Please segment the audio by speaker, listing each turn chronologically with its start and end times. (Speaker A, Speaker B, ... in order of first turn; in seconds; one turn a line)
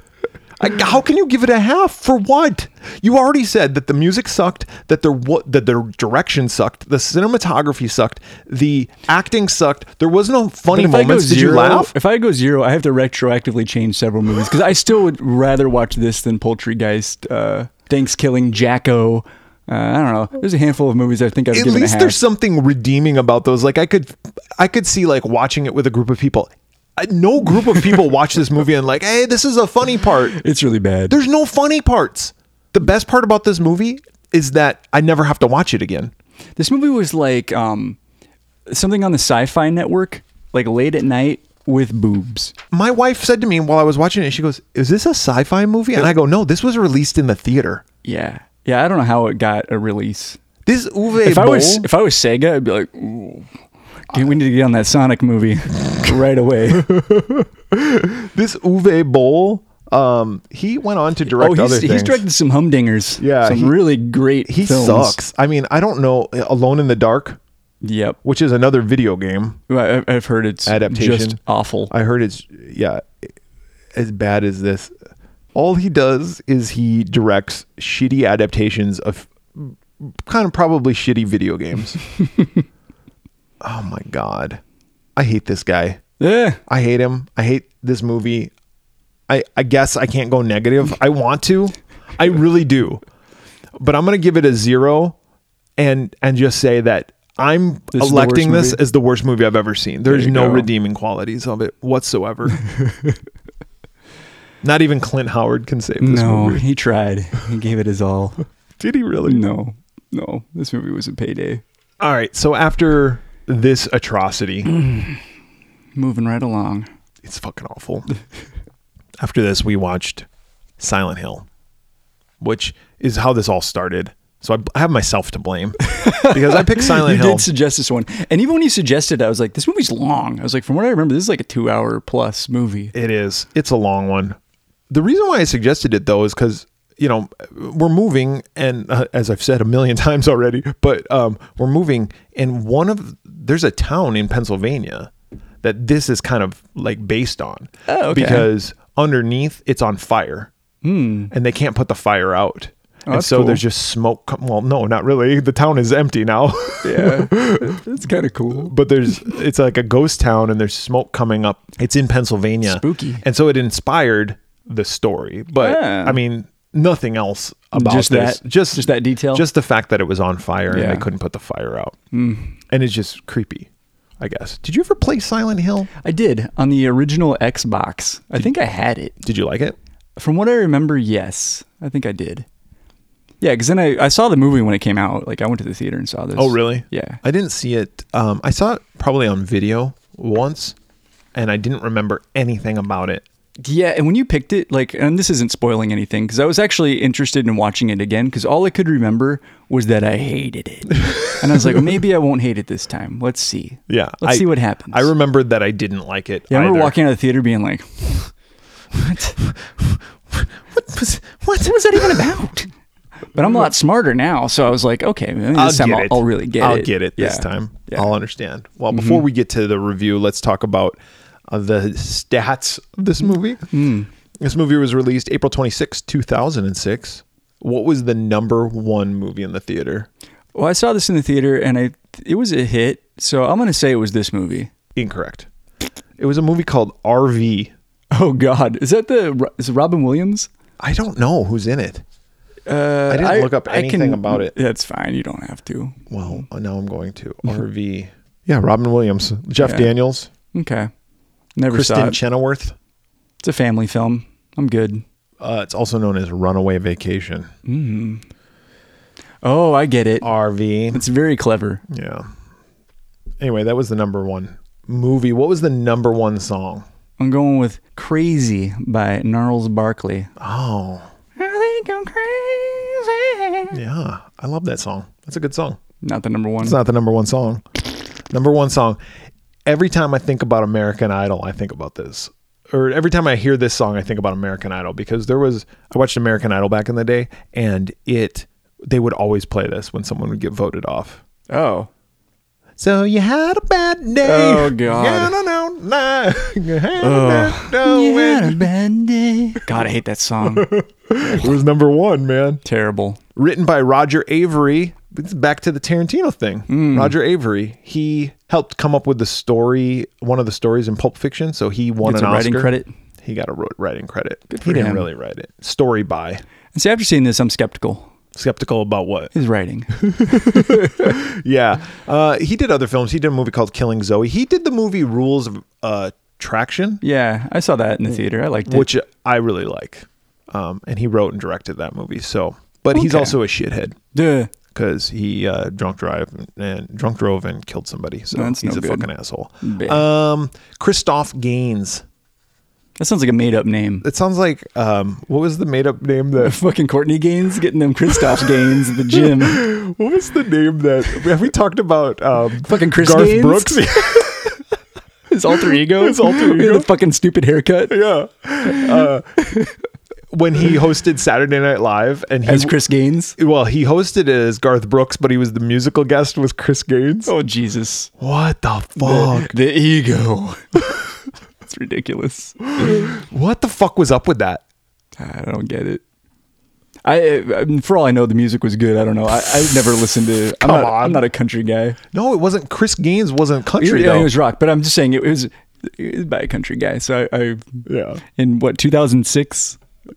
Speaker A: 0.6-11.9
Speaker B: 10.7-22.2
Speaker A: 21.5-30.4
Speaker B: 30.3-31.2
Speaker A: 31.1-36.1
Speaker B: 36.6-38.0
Speaker B: 38.7-42.5
Speaker A: 42.7-47.8
Speaker B: 48.0-50.4
Speaker A: 50.7-51.9
Speaker B: 51.2-53.5
Speaker B: 54.1-56.9
Speaker A: 56.8-62.2
Speaker B: 61.3-65.2
Speaker A: 63.2-63.8
Speaker A: 64.5-67.4
Speaker B: 67.8-68.2
Speaker A: 68.2-69.6
Speaker B: 69.7-71.9
Speaker A: 70.7-71.4
Speaker A: 71.9-73.2
Speaker A: 73.9-74.9
Speaker A: 75.5-82.0
Speaker B: 82.2-82.6
Speaker A: 83.6-84.6
Speaker A: 85.2-86.0
Speaker B: 86.2-86.6
Speaker A: 86.7-88.5
Speaker A: 89.3-93.0
Speaker A: 93.8-95.2
Speaker A: 95.8-102.6
Speaker B: 97.9-98.8
Speaker B: 100.1-100.7
Speaker B: 102.6-103.2
Speaker A: 104.6-106.7
Speaker B: 106.0-108.4
Speaker A: 108.8-109.4
Speaker B: 109.2-111.6
Speaker A: 112.0-114.7
Speaker B: 114.7-115.2
Speaker B: 116.0-116.9
Speaker A: 117.2-118.1
Speaker A: 119.2-120.3
Speaker A: 120.8-121.5
Speaker A: 122.4-127.5
Speaker B: 125.8-132.9
Speaker A: 132.9-134.4
Speaker A: 134.9-145.1
Speaker A: 145.6-150.5
Speaker B: 147.9-148.5
Speaker B: 150.8-151.3
Speaker A: 151.3-157.8
Speaker B: 153.1-153.6
Speaker B: 156.8-158.7
Speaker A: 158.5-172.0
Speaker B: 162.7-163.2
Speaker B: 165.6-166.2
Speaker B: 167.7-169.4
Speaker B: 170.7-171.1
Speaker B: 172.1-172.5
Speaker A: 172.7-173.7
Speaker A: 174.2-175.9
Speaker B: 176.0-179.2
Speaker A: 179.2-179.8
Speaker B: 180.2-182.5
Speaker B: 183.4-187.2
Speaker A: 186.4-190.8
Speaker A: 191.3-193.2
Speaker B: 193.6-205.1
Speaker A: 201.1-201.8
Speaker A: 203.9-207.0
Speaker B: 206.5-208.3
Speaker B: 208.9-209.4
Speaker A: 209.4-212.5
Speaker B: 211.6-212.7
Speaker B: 213.3-218.1
Speaker A: 215.5-221.0
Speaker B: 218.9-219.2
Speaker A: 221.5-223.7
Speaker B: 223.7-224.1
Speaker A: 224.4-230.1
Speaker B: 230.6-234.7
Speaker A: 234.9-235.5
Speaker A: 236.2-237.7
Speaker B: 238.1-240.5
Speaker A: 240.8-242.0
Speaker B: 242.7-246.4
Speaker A: 243.1-244.5
Speaker A: 246.1-250.3
Speaker B: 249.6-249.9
Speaker B: 250.5-250.9
Speaker B: 251.6-252.2
Speaker A: 251.7-252.8
Speaker B: 253.4-255.0
Speaker A: 255.4-257.5
Speaker B: 257.7-258.2
Speaker B: 259.4-260.3
Speaker A: 260.2-261.0
Speaker B: 260.9-261.8
Speaker A: 261.9-262.3
Speaker A: 263.4-266.8
Speaker B: 267.2-270.3
Speaker A: 270.4-271.1
Speaker B: 271.4-273.8
Speaker A: 273.7-275.8
Speaker B: 276.0-276.8
Speaker A: 276.6-279.0
Speaker A: 279.7-291.2
Speaker B: 291.5-291.9
Speaker A: 292.8-298.7
Speaker B: 294.2-295.4
Speaker B: 297.0-301.5
Speaker A: 300.4-302.6
Speaker B: 302.6-303.2
Speaker A: 303.4-316.4
Speaker B: 306.7-307.1
Speaker B: 312.0-312.9
Speaker B: 314.5-315.1
Speaker B: 316.7-318.1
Speaker A: 318.4-319.3
Speaker B: 319.3-321.1
Speaker A: 320.0-327.0
Speaker B: 327.0-328.9
Speaker A: 328.7-334.0
Speaker B: 332.9-333.4
Speaker B: 334.1-334.5
Speaker A: 334.7-342.1
Speaker B: 338.3-339.1
Speaker B: 339.6-340.1
Speaker B: 343.0-344.1
Speaker A: 344.0-346.6
Speaker B: 346.4-349.7
Speaker A: 348.2-354.6
Speaker B: 352.6-354.2
Speaker B: 355.3-358.0
Speaker A: 355.5-356.9
Speaker A: 357.9-359.3
Speaker B: 358.6-359.8
Speaker A: 360.3-362.8
Speaker B: 362.4-363.4
Speaker A: 363.4-367.3
Speaker B: 367.3-368.1
Speaker A: 368.2-369.5
Speaker B: 369.0-371.1
Speaker B: 371.6-373.1
Speaker A: 372.8-374.6
Speaker B: 375.2-376.0
Speaker B: 377.1-382.0
Speaker A: 380.6-381.2
Speaker A: 382.1-384.3
Speaker B: 383.8-387.9
Speaker A: 387.9-388.2
Speaker B: 388.4-389.8